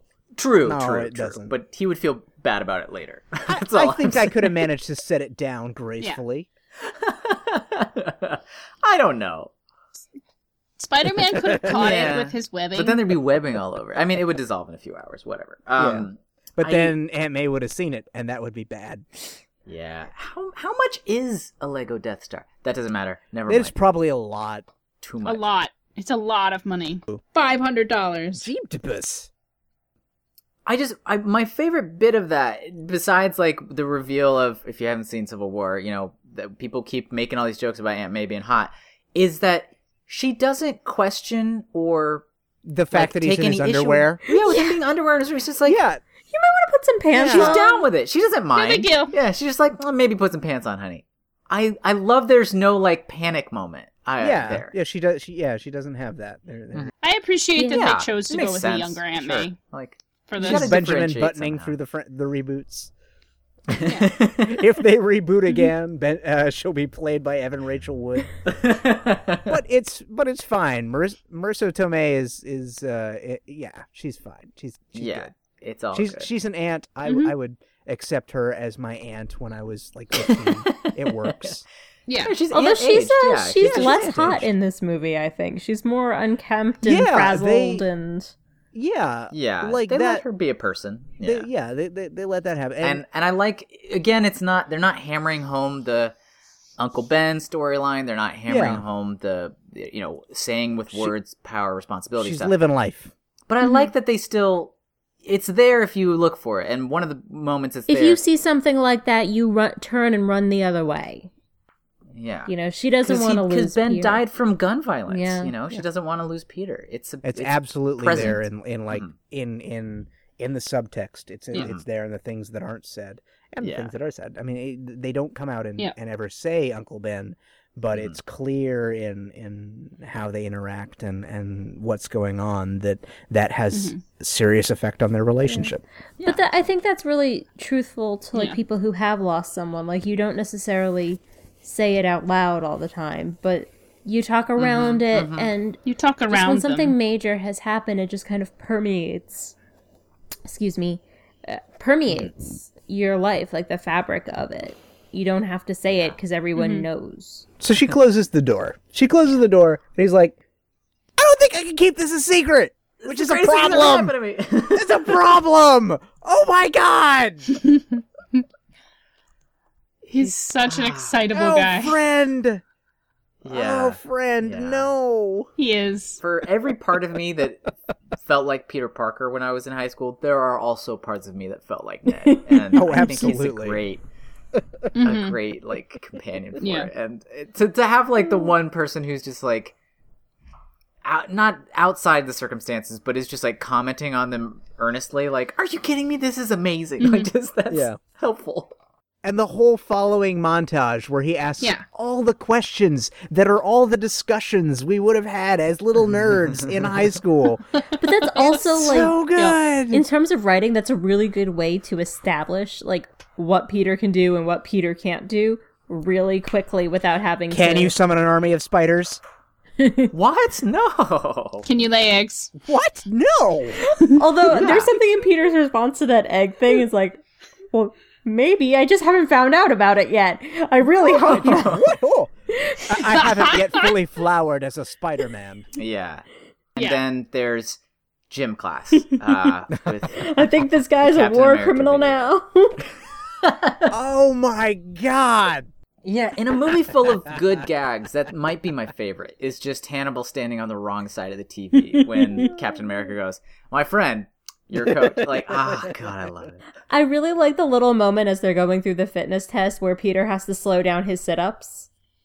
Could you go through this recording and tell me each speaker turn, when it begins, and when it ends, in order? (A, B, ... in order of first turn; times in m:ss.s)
0:00.4-0:04.6 A
0:00.6-0:01.5 B
0:03.5-0:06.5 B
0:06.8-0:09.5 A
0:10.8-0:13.1 C
0:11.6-0:16.9 A
0:15.8-0:19.1 B
0:19.7-0:23.8 A
0:23.5-0:24.7 B
0:25.0-0:25.4 A
0:25.2-0:28.5 C
0:28.4-0:29.3 B
0:30.7-0:42.3 A
0:42.6-0:44.2 B
0:42.9-0:45.8 A
0:44.3-0:44.8 D
0:45.6-0:46.0 B
0:46.3-0:47.8 D
0:47.1-0:47.6 B
0:47.3-0:54.7 A
0:48.6-0:49.2 C
0:54.2-0:56.9 B
0:57.0-0:59.6 C
0:57.6-0:57.9 D
0:57.7-1:01.8 A
1:00.3-1:00.8 C
1:00.4-1:02.9 B
1:03.7-1:08.5 B
1:03.8-1:04.7 A
1:03.9-1:04.1 C
1:08.5-1:09.5 A
1:09.5-1:15.3 B
1:15.0-1:16.3 A
1:15.9-1:21.6 B
1:17.0-1:17.3 C
1:20.2-1:21.5 A
1:22.1-1:22.4 C
1:22.2-1:24.4 A
1:22.5-1:28.3 D
1:23.6-1:24.5 B
1:26.8-1:27.8 B
1:28.7-1:30.2 B
1:29.3-1:31.5 A
1:31.2-1:33.0 B
1:32.8-1:36.1 A
1:36.8-1:42.5 A
1:38.5-1:38.8 B
1:42.2-1:43.1 B
1:43.5-1:48.2 A
1:43.6-1:43.9 D
1:47.9-1:51.3 D
1:52.2-1:52.5 A
1:52.5-1:54.2 D
1:53.0-1:59.1 A
1:55.1-1:55.5 D
1:57.2-2:15.8 B
2:01.5-2:01.8 A
2:03.6-2:03.9 A
2:13.7-2:14.0 C
2:16.2-2:16.6 A
2:16.2-2:29.5 D
2:18.4-2:18.6 C
2:24.6-2:25.5 A
2:25.8-2:27.0 C
2:30.4-2:37.5 D
2:36.6-2:36.9 C
2:37.6-2:40.4 B
2:41.2-2:44.2 B
2:43.0-2:45.1 A
2:44.7-2:47.5 B
2:47.7-2:48.4 C
2:50.1-2:52.0 C
2:50.7-2:51.2 A
2:51.3-2:52.6 B
2:53.4-2:54.9 A
2:53.5-2:55.5 B
2:55.6-2:56.2 C
2:56.2-3:04.0 A
3:02.2-3:03.2 D
3:02.7-3:03.8 B
3:05.0-3:05.4 C
3:05.0-3:09.7 A
3:06.6-3:06.9 C
3:11.0-3:18.7 A
3:17.0-3:17.3 C
3:17.7-3:18.0 B
3:19.2-3:27.6 B
3:28.0-3:29.2 D
3:28.3-3:28.7 C
3:28.4-3:30.0 B
3:29.9-3:37.9 D
3:37.5-3:39.2 B
3:39.8-3:40.1 D
3:40.1-3:41.7 A
3:41.7-3:42.5 C
3:42.6-3:43.8 B
3:43.9-3:47.2 D
3:44.5-3:44.9 A
3:47.7-3:51.8 D
3:51.0-3:52.3 B
3:51.2-3:51.9 A
3:52.5-3:53.2 D
3:52.9-3:55.7 B
3:53.1-3:53.9 C
3:55.8-3:57.8 A
3:58.3-4:02.3 A
4:00.2-4:02.8 D
4:03.4-4:03.9 A
4:03.9-4:05.7 B
4:06.0-4:16.6 A
4:14.8-4:16.0 B
4:16.9-4:21.9 D